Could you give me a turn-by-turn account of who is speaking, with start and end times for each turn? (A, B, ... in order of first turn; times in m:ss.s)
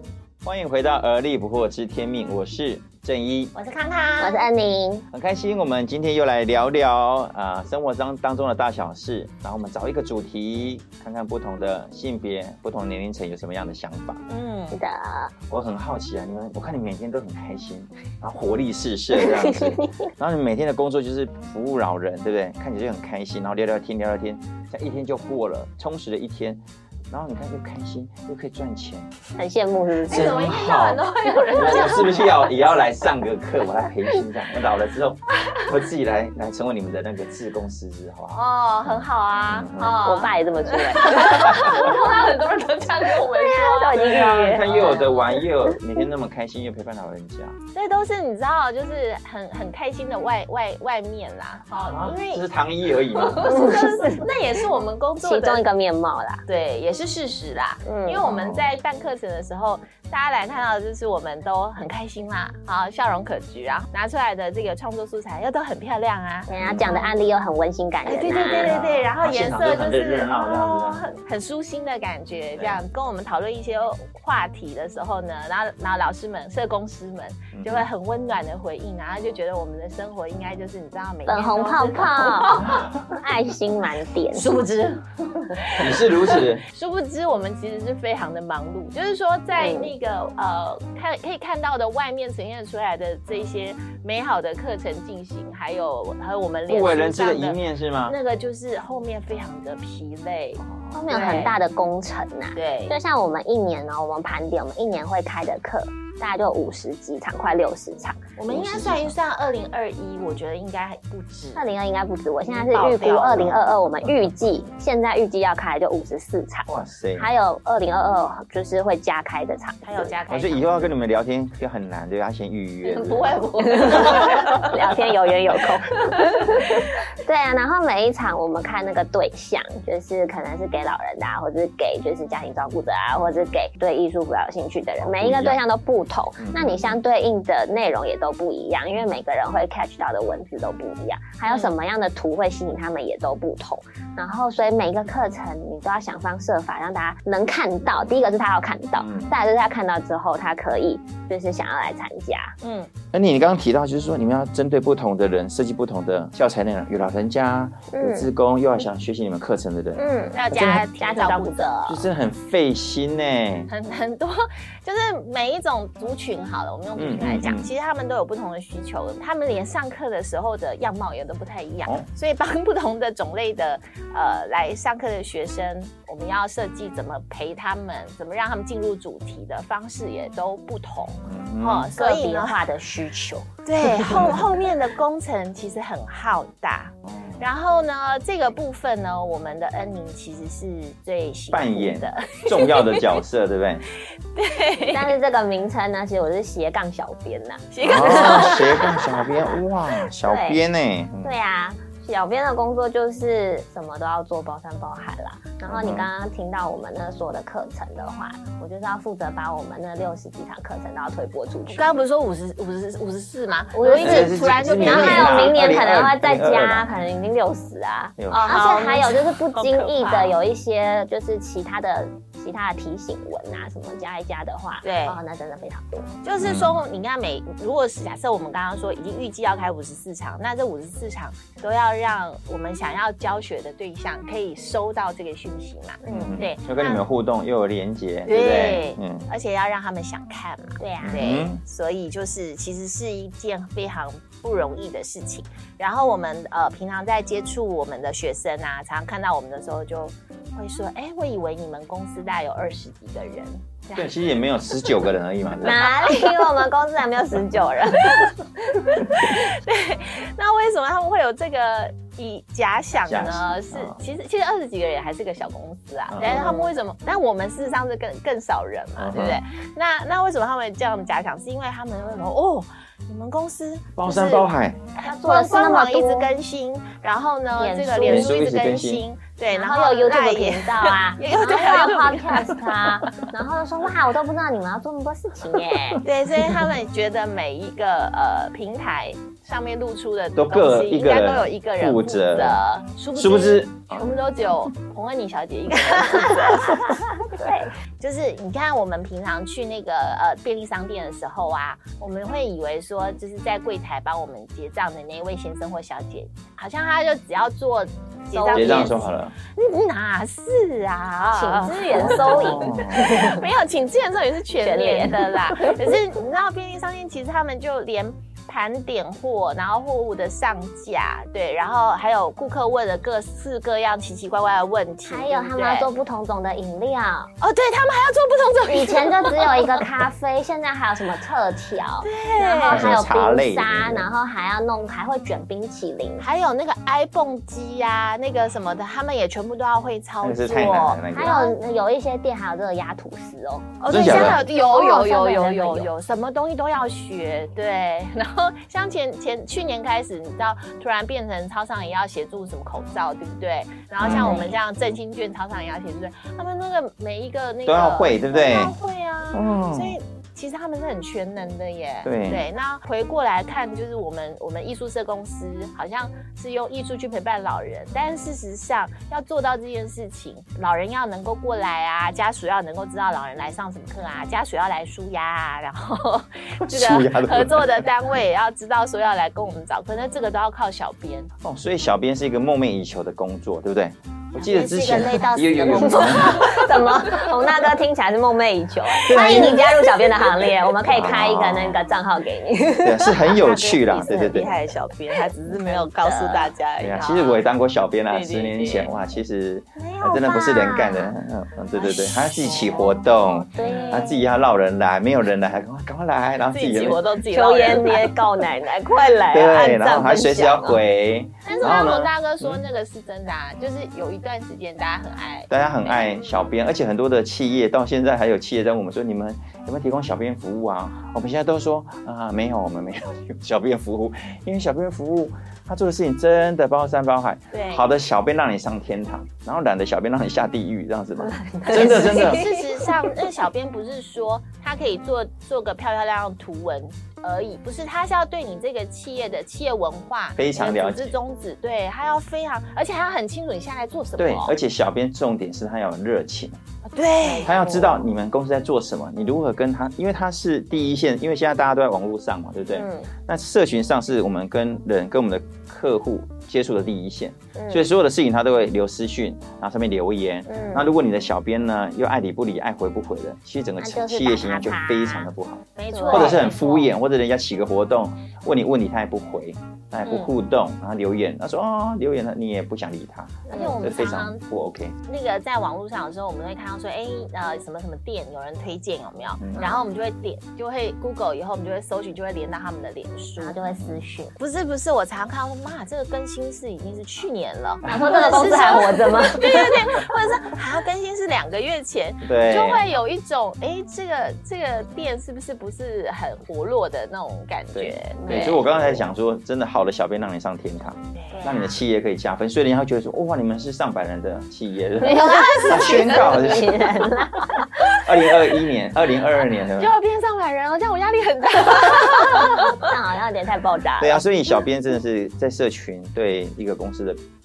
0:00.4-0:03.5 A
0:03.5-0:04.4 B
0:04.2-0:05.0 C
0:05.1-0:14.2 A
0:14.3-0:14.8 B
0:14.7-0:15.3 C
0:15.5-0:29.1 A
0:19.4-0:20.0 C
0:29.4-0:30.4 C
0:30.1-0:32.6 B
0:30.1-0:40.0 A
0:38.3-0:45.3 B
0:39.8-0:42.1 C
0:41.3-0:41.9 A
0:43.2-0:44.9 C
0:44.0-0:47.6 A
0:47.7-0:52.4 B
0:51.8-0:53.6 A
0:53.0-0:55.7 B
0:53.4-0:54.3 C
0:55.2-0:56.4 C
0:56.5-1:07.1 B
0:57.8-0:58.2 C
0:58.2-0:58.7 A
1:06.5-1:08.7 C
1:06.6-1:06.9 A
1:08.0-1:23.0 B
1:08.6-1:11.1 A
1:12.6-1:12.8 A
1:17.5-1:17.9 A
1:21.2-1:24.6 C
1:24.3-1:41.6 B
1:25.8-1:26.6 A
1:29.6-1:29.9 C
1:36.7-1:38.2 A
1:40.6-1:40.9 A
1:40.9-1:48.3 C
1:42.6-1:43.0 B
1:48.4-1:51.6 B
1:48.5-1:49.2 A
1:51.6-2:00.2 C
1:52.4-1:53.6 B
1:56.7-1:57.3 A
1:59.8-2:00.9 B
2:00.3-2:03.4 A
2:02.8-2:04.7 B
2:03.6-2:32.5 C
2:15.0-2:15.6 A
2:16.4-2:16.9 A
2:21.5-2:21.7 B
2:29.0-2:29.3 A
2:32.6-2:32.9 B
2:33.1-2:40.8 A
2:37.9-2:38.3 C
2:40.0-2:41.8 C
2:40.3-2:42.1 B
2:41.8-2:43.7 A
2:43.7-3:02.6 B
2:46.9-2:47.7 A
3:01.2-3:01.9 A
3:02.0-3:04.3 C
3:03.6-3:13.1 B
3:07.0-3:07.4 A
3:11.5-3:13.8 A
3:14.4-3:15.1 B
3:14.9-3:18.9 C
3:17.7-3:19.3 B
3:17.8-3:21.3 A
3:20.2-3:20.6 C
3:21.2-3:31.9 C
3:25.7-3:26.1 A
3:31.7-3:35.6 B
3:33.7-3:46.1 C
3:34.0-3:36.9 A
3:38.2-3:38.9 A
3:38.5-3:40.4 B
3:44.8-3:45.2 B
3:46.2-3:57.0 B
3:46.4-3:46.8 A
3:56.0-3:56.4 C
3:56.1-3:59.2 A
3:58.2-4:14.1 B
4:00.8-4:01.4 C
4:01.0-4:01.6 A
4:13.9-4:15.9 A
4:15.6-4:18.4 C
4:16.0-4:16.3 B
4:18.1-4:42.8 B
4:23.0-4:24.0 A
4:26.1-4:26.5 A
4:26.2-4:26.7 C
4:29.0-4:29.4 A
4:34.0-4:34.8 A
4:35.0-4:36.3 C
4:37.5-4:38.3 C
4:38.0-4:39.0 A
4:39.5-4:46.0 C
4:46.0-4:57.4 B
4:50.4-4:52.6 A
4:53.1-4:54.1 A
4:56.2-4:57.7 C
4:58.0-5:25.9 B
5:08.3-5:09.0 C
5:08.5-5:09.4 A
5:11.3-5:13.4 C
5:11.9-5:13.2 A
5:14.6-5:15.8 C
5:25.1-5:27.3 C
5:27.4-5:29.9 B
5:28.7-5:36.2 C
5:32.0-5:32.9 B
5:32.7-5:34.1 A
5:36.2-5:41.6 B
5:40.2-5:41.4 A
5:41.1-5:45.9 C
5:43.8-6:21.3 B
5:43.9-5:44.4 A
5:54.0-5:54.4 A
5:54.1-5:54.6 C
5:57.6-5:58.8 A
5:59.3-6:00.0 A
6:02.0-6:02.4 A
6:16.6-6:17.9 A
6:21.4-6:26.6 A
6:24.4-6:27.3 B
6:25.6-6:33.4 C
6:29.0-6:29.8 A
6:29.2-6:29.6 B
6:30.8-6:31.8 A
6:32.8-6:34.6 A
6:33.3-6:37.4 B
6:35.5-6:36.5 C
6:36.8-6:47.0 A
6:38.1-6:38.9 B
6:39.8-6:41.1 C
6:41.8-6:44.2 C
6:43.6-6:44.1 B
6:46.5-6:48.2 B
6:47.3-6:50.8 C
6:49.3-6:52.6 A
6:51.4-6:55.5 B
6:51.5-6:51.8 C
6:55.5-7:12.5 A
7:07.5-7:07.9 B
7:11.2-7:13.2 C
7:11.7-7:24.6 B
7:20.4-7:21.2 A
7:24.2-7:26.6 A
7:26.9-7:27.6 B
7:27.2-7:28.0 C
7:27.4-7:54.9 A
7:32.7-7:33.1 C
7:37.6-7:37.9 C
7:40.5-7:40.9 C
7:43.8-7:45.3 C
7:45.8-7:46.9 B
7:45.9-7:46.5 C
7:50.0-7:50.3 B
7:53.5-7:53.8 C
7:53.5-7:54.4 B
7:55.0-8:03.6 B
7:59.4-7:59.7 A
8:03.4-8:04.4 C
8:04.4-8:18.7 B
8:07.8-8:10.0 C
8:07.8-8:08.2 A
8:12.2-8:12.8 A
8:17.7-8:26.9 A
8:18.2-8:19.0 C
8:21.2-8:21.8 B
8:25.0-8:26.7 B
8:25.0-8:28.0 C
8:28.0-8:29.9 A
8:29.7-8:32.9 B
8:32.3-8:34.2 C
8:34.0-8:37.2 A